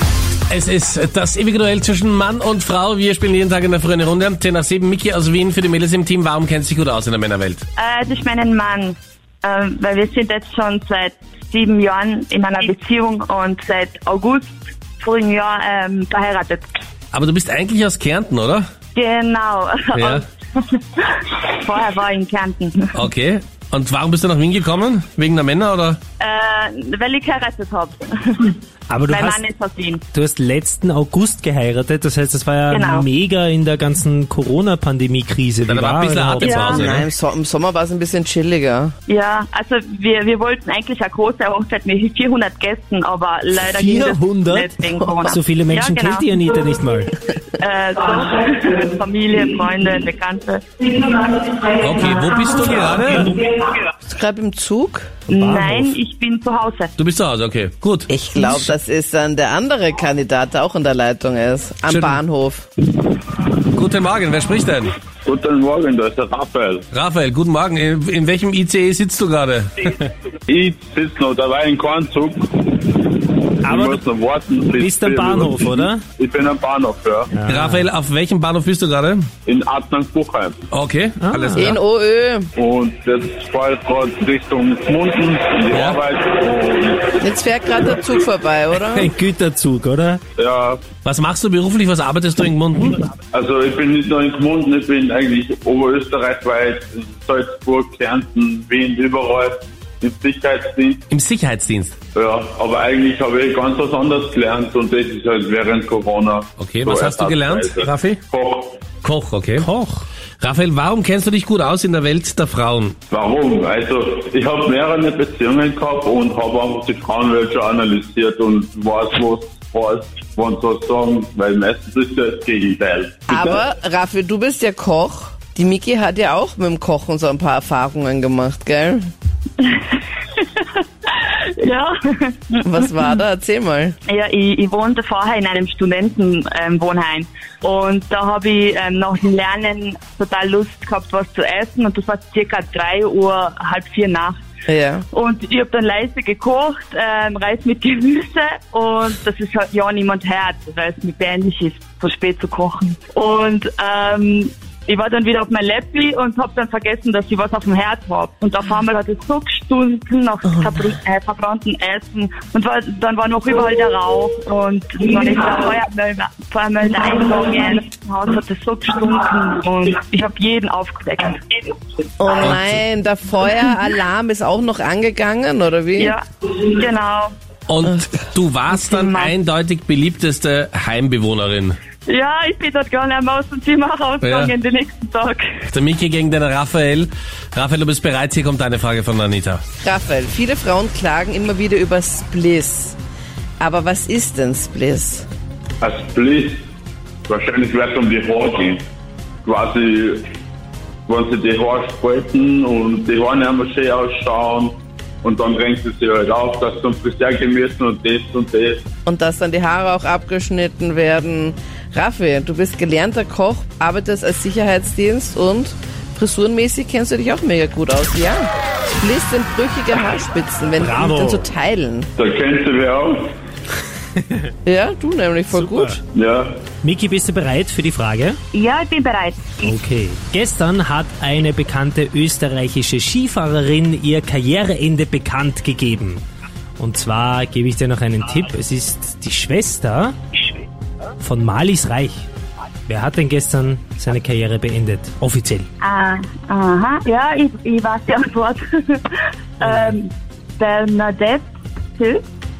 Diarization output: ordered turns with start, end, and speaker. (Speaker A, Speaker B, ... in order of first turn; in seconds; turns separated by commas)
Speaker A: 0.5-7.6, Speaker B: 7.8-16.6, Speaker A: 17.1-18.6, Speaker B: 18.9-23.0, Speaker A: 19.9-20.2, Speaker A: 22.9-26.0, Speaker B: 26.2-28.6, Speaker C: 28.9-29.4, Speaker B: 29.1-30.0, Speaker C: 30.1-36.9, Speaker B: 32.7-33.1, Speaker A: 35.7-37.1, Speaker B: 36.4-36.8, Speaker D: 36.6-39.0, Speaker B: 39.1-46.4, Speaker C: 43.6-47.2, Speaker B: 47.6-52.5, Speaker A: 51.8-53.4, Speaker D: 54.1-55.2, Speaker C: 55.3-56.0, Speaker B: 55.3-56.9, Speaker A: 57.0-58.1, Speaker D: 58.1-62.7, Speaker A: 61.9-62.2, Speaker A: 63.7-65.0, Speaker E: 65.2-66.9, Speaker A: 66.9-70.0, Speaker E: 70.5-77.3, Speaker C: 73.6-74.0, Speaker C: 74.8-76.0, Speaker C: 77.3-77.9, Speaker A: 77.5-79.3, Speaker E: 79.5-80.6, Speaker A: 80.7-81.8, Speaker C: 81.2-81.7, Speaker D: 81.6-82.5, Speaker E: 82.6-87.1, Speaker A: 85.7-86.0, Speaker D: 87.2-89.1, Speaker C: 88.8-90.2, Speaker E: 90.4-90.8, Speaker A: 91.0-93.0, Speaker E: 93.3-101.0, Speaker A: 101.1-101.9, Speaker E: 102.1-108.8, Speaker A: 106.6-108.2, Speaker A: 109.0-109.7, Speaker C: 109.6-110.0, Speaker A: 110.4-113.0, Speaker E: 113.1-123.6, Speaker D: 123.3-129.1, Speaker B: 129.6-132.6, Speaker D: 132.7-134.0, Speaker B: 134.1-144.4, Speaker D: 144.7-145.1, Speaker B: 145.1-171.6, Speaker D: 172.2-176.1, Speaker A: 172.4-172.8, Speaker B: 176.0-177.3, Speaker A: 177.7-181.8, Speaker B: 178.7-179.3, Speaker B: 182.1-185.5, Speaker A: 184.2-184.6, Speaker A: 185.7-189.6, Speaker D: 189.8-192.9, Speaker D: 193.6-195.3, Speaker E: 195.8-196.7, Speaker E: 197.3-198.8, Speaker E: 199.4-200.3, Speaker E: 201.1-208.9, Speaker D: 209.1-222.1, Speaker C: 220.8-221.5, Speaker E: 222.2-223.3, Speaker D: 224.7-226.0, Speaker C: 225.5-226.0, Speaker E: 226.1-226.6, Speaker C: 226.8-228.4, Speaker B: 228.5-229.6, Speaker C: 229.6-236.2, Speaker C: 236.8-240.2, Speaker C: 241.2-242.3, Speaker C: 242.9-245.7, Speaker B: 245.8-251.5, Speaker C: 249.6-250.0, Speaker B: 252.0-252.2